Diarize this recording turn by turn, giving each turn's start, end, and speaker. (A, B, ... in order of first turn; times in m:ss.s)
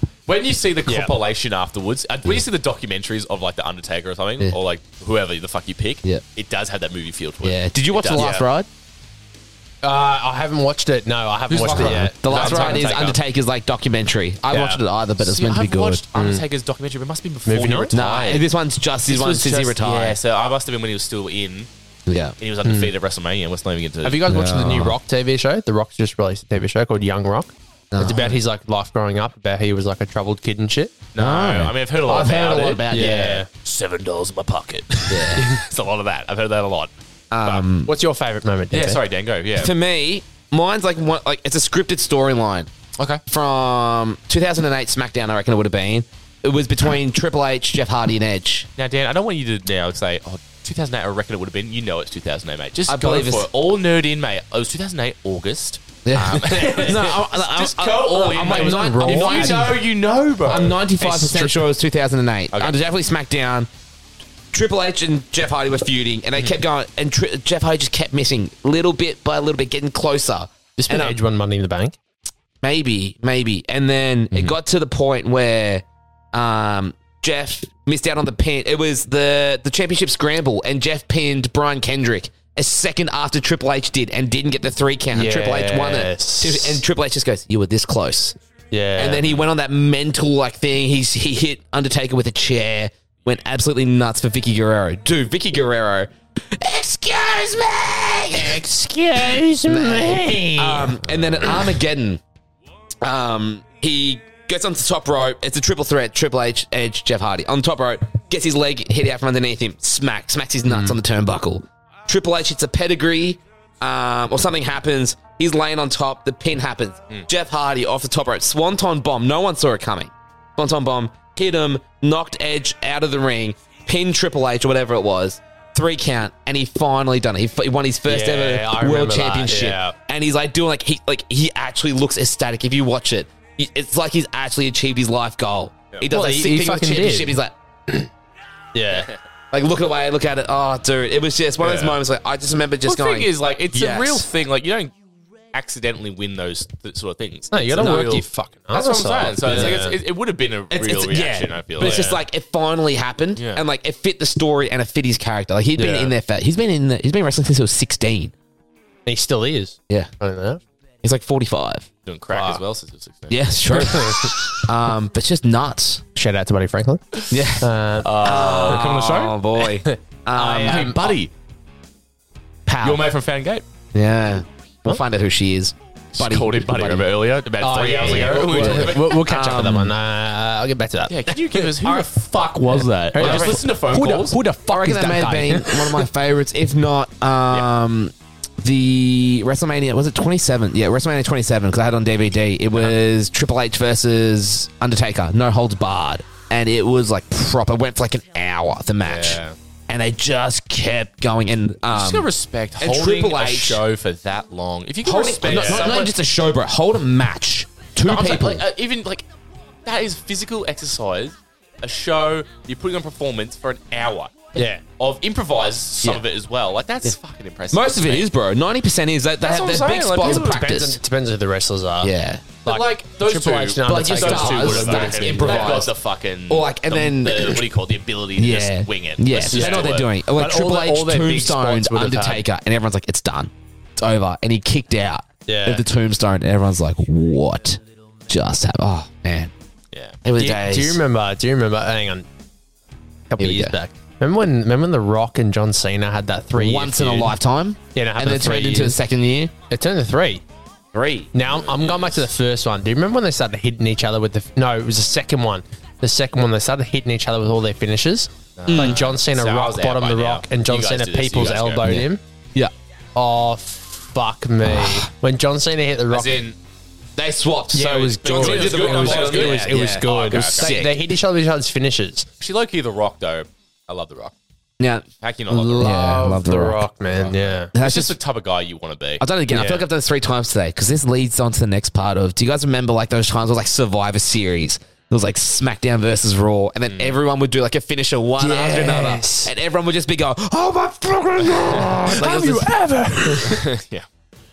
0:00.3-0:08.4 A
0:00.9-0:01.1 B
0:07.4-0:08.7 C
0:08.2-0:08.4 B
0:09.8-0:13.2 B
0:11.5-0:13.2 A
0:11.5-0:16.0 C
0:14.5-0:14.8 B
0:15.2-0:18.4 A
0:16.1-0:16.4 B
0:17.5-0:18.4 B
0:17.9-0:20.2 C
0:19.1-0:21.7 A
0:22.1-0:22.4 C
0:22.4-0:24.3 A
0:22.6-0:22.9 B
0:24.0-0:30.9 B
0:24.2-0:25.0 C
0:27.9-0:28.4 C
0:31.1-0:36.9 A
0:31.2-0:33.4 C
0:32.9-0:33.5 B
0:35.1-0:35.5 C
0:37.3-0:37.9 C
0:37.8-0:39.0 B
0:38.7-0:39.7 A
0:39.6-0:42.7 C
0:43.3-0:48.7 C
0:48.8-1:01.5 A
0:52.9-0:53.5 C
0:56.0-0:59.8 C
0:56.6-0:56.9 B
0:58.3-0:59.7 B
1:00.4-1:03.7 C
1:04.5-1:11.2 C
1:10.8-1:12.0 B
1:12.6-1:28.4 C
1:25.1-1:26.8 B
1:28.7-1:29.3 B
1:29.0-1:38.6 C
1:38.3-1:40.9 B
1:39.6-1:42.2 C
1:43.0-2:17.5 C
1:50.7-1:51.0 B
2:08.1-2:09.9 B
2:16.1-2:17.4 B
2:18.7-2:19.1 B
2:19.5-2:24.2 C
2:21.6-2:22.0 A
2:22.8-2:24.9 A
2:25.5-2:32.1 A
2:27.5-2:30.0 B
2:27.7-2:28.1 C
2:29.4-2:29.8 C
2:30.7-2:38.3 C
2:31.8-2:32.2 B
2:33.4-2:33.6 A
2:35.8-2:36.1 B
2:39.0-2:40.6 B
2:41.0-2:41.9 C
2:42.0-2:43.7 A
2:42.3-2:42.6 B
2:43.3-2:46.0 C
2:43.7-2:44.4 B
2:46.1-2:48.1 B
2:47.3-2:51.0 C
2:48.0-2:49.4 A
2:49.8-2:51.2 B
2:50.3-2:51.3 A
2:52.6-2:53.0 C
2:52.8-2:53.6 A
2:53.9-2:57.1 C
2:56.1-2:59.2 A
2:57.6-3:06.1 B
2:57.8-2:59.9 C
3:01.1-3:04.4 A
3:03.2-3:03.6 C
3:04.7-3:23.8 C
3:19.0-3:19.6 A
3:21.9-3:26.1 A
3:25.0-3:28.6 C
3:28.0-3:29.2 A
3:29.8-3:38.3 A
3:34.6-3:34.8 B
3:37.7-3:41.0 C
3:39.4-3:40.6 A
3:39.9-3:42.1 B
3:42.0-3:42.4 C
3:42.6-3:45.8 B
3:42.6-3:50.1 A
3:43.8-3:45.9 C
3:46.5-3:47.7 C
3:48.4-3:59.5 C
3:49.5-3:52.4 B
3:55.5-3:55.8 B
3:59.9-4:00.2 A
4:00.2-4:01.0 C
4:00.4-4:02.2 B
4:03.3-4:07.4 B
4:03.4-4:03.8 C
4:06.5-4:09.5 C
4:07.9-4:09.0 B
4:09.7-4:10.4 B
4:10.9-4:11.3 C
4:11.3-4:22.2 B
4:11.5-4:12.3 A
4:18.6-4:22.0 A
4:18.6-4:19.0 C
4:21.8-4:22.7 C
4:23.2-4:26.4 B
4:24.6-4:25.1 C
4:26.1-4:26.6 A
4:27.2-4:31.1 C
4:27.7-4:32.3 B
4:28.2-4:30.7 A
4:32.4-4:34.3 A
4:34.8-4:35.1 C
4:35.2-4:36.0 A
4:35.5-4:37.7 B
4:35.8-4:36.8 C
4:37.2-4:39.2 A
4:37.7-4:38.2 C
4:39.2-4:52.7 C
4:39.5-4:39.8 B
4:46.9-4:47.2 A
4:48.4-4:49.5 B
4:51.8-4:53.6 B
4:53.2-4:53.5 C
4:53.5-4:54.0 A